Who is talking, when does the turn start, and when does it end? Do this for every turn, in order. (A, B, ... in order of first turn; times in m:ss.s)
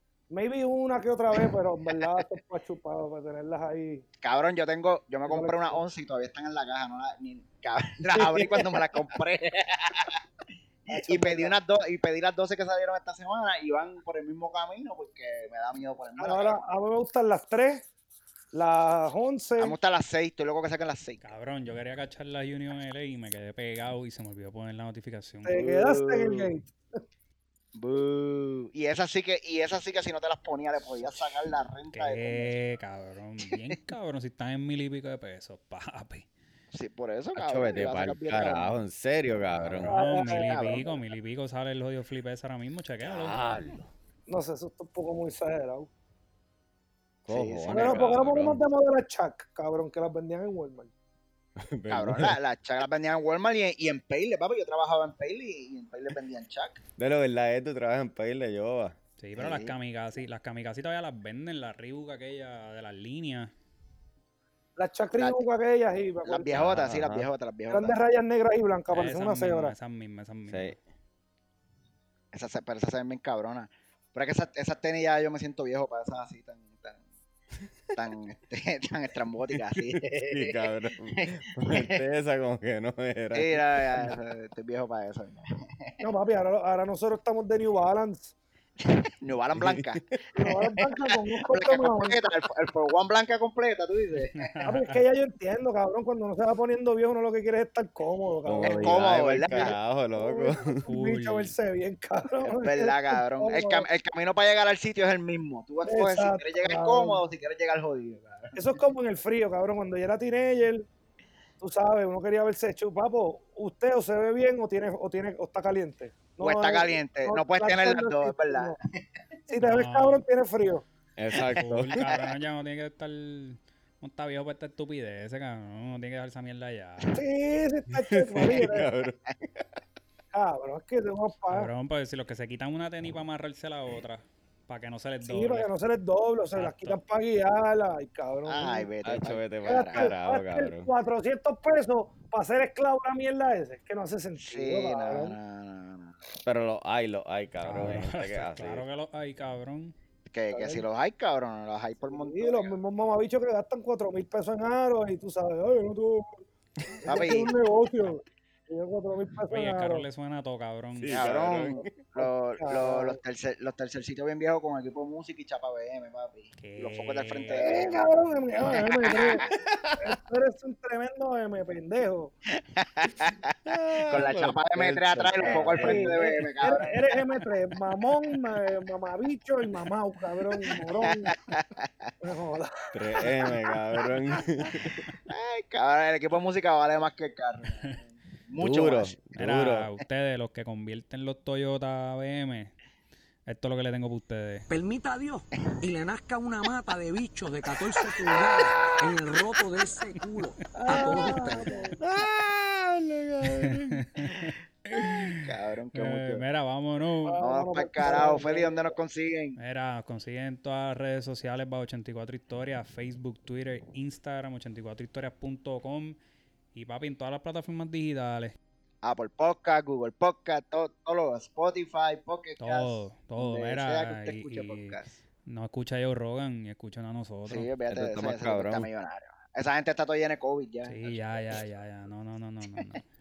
0:00.3-0:04.0 A
0:04.2-0:10.2 B
0:05.3-0:05.8 A
0:10.9-0:16.6 B
0:10.9-0:11.5 A
0:16.2-0:17.8 A
0:18.5-0:19.8 A
0:19.6-0:21.2 B
0:21.2-0:25.6 C
0:25.4-0:26.7 A
0:25.5-0:26.5 B
0:27.8-0:32.5 B
0:31.9-0:36.3 C
0:36.7-0:38.7 B
0:37.4-0:39.9 D
0:39.7-0:43.4 C
0:39.9-0:40.9 A
0:39.9-0:41.0 B
0:43.1-0:43.8 D
0:44.3-0:45.9 A
0:47.2-0:48.6 D
0:47.3-0:48.1 B
0:47.7-0:50.9 A
0:51.6-0:52.4 D
0:51.9-0:56.8 B
0:57.0-0:59.0 D
0:59.2-1:03.5 C
0:59.4-0:59.8 B
1:04.8-1:06.6 A
1:06.2-1:08.0 B
1:06.6-1:07.3 D
1:07.7-1:09.7 A
1:08.9-1:10.7 C
1:10.5-1:10.8 D
1:12.3-1:17.0 B
1:18.0-1:20.6 B
1:19.8-1:24.2 D
1:21.2-1:22.0 B
1:23.3-1:26.0 B
1:26.0-1:28.4 A
1:28.8-1:30.9 B
1:29.6-1:29.8 D
1:30.4-1:32.2 A
1:31.5-1:34.5 B
1:34.3-1:35.0 C
1:34.6-1:43.9 A
1:38.4-1:40.9 D
1:38.8-1:39.7 B
1:40.9-1:41.5 C
1:42.4-1:48.6 B
1:45.8-1:47.2 A
1:48.5-1:50.9 A
1:51.6-1:58.8 A
1:56.4-1:59.0 B
1:59.5-2:00.8 A
1:59.6-2:00.2 C
2:01.2-2:02.0 D
2:01.5-2:07.2 C
2:02.0-2:02.2 B
2:07.1-2:08.9 A
2:07.9-2:09.7 D
2:10.3-2:11.7 A
2:11.5-2:15.7 C
2:15.2-2:18.9 A
2:16.6-2:17.0 C
2:18.5-2:20.1 B
2:19.0-2:20.9 D
2:19.7-2:25.4 A
2:24.4-2:26.2 B
2:26.4-2:28.8 D
2:27.6-2:30.0 C
2:30.3-2:32.7 B
2:30.5-2:30.8 A
2:32.0-2:36.4 A
2:37.0-2:40.1 A
2:37.0-2:37.6 B
2:39.5-2:41.4 C
2:41.0-2:41.9 D
2:41.1-2:49.5 B
2:42.2-2:43.2 A
2:46.6-2:47.9 C
2:47.5-2:49.4 A
2:49.1-2:50.0 D
2:50.0-2:52.3 A
2:52.6-2:53.6 B
2:53.7-2:56.2 D
2:54.1-2:57.2 B
2:55.4-3:01.4 A
3:00.8-3:01.7 B
3:02.2-3:03.7 A
3:02.9-3:05.0 D
3:05.3-3:09.2 B
3:08.6-3:09.9 D
3:09.4-3:12.8 C
3:13.5-3:14.7 C
3:14.7-3:21.7 E
3:20.8-3:22.0 A
3:22.0-3:24.1 D
3:23.5-3:25.4 C
3:25.2-3:26.4 B
3:25.9-3:27.4 C
3:27.2-3:28.9 A
3:27.4-3:29.6 B
3:29.6-3:36.2 C
3:36.7-3:38.6 C
3:39.0-3:45.1 B
3:42.6-3:47.7 C
3:47.5-3:51.6 B
3:47.9-3:48.9 D
3:50.9-3:53.0 C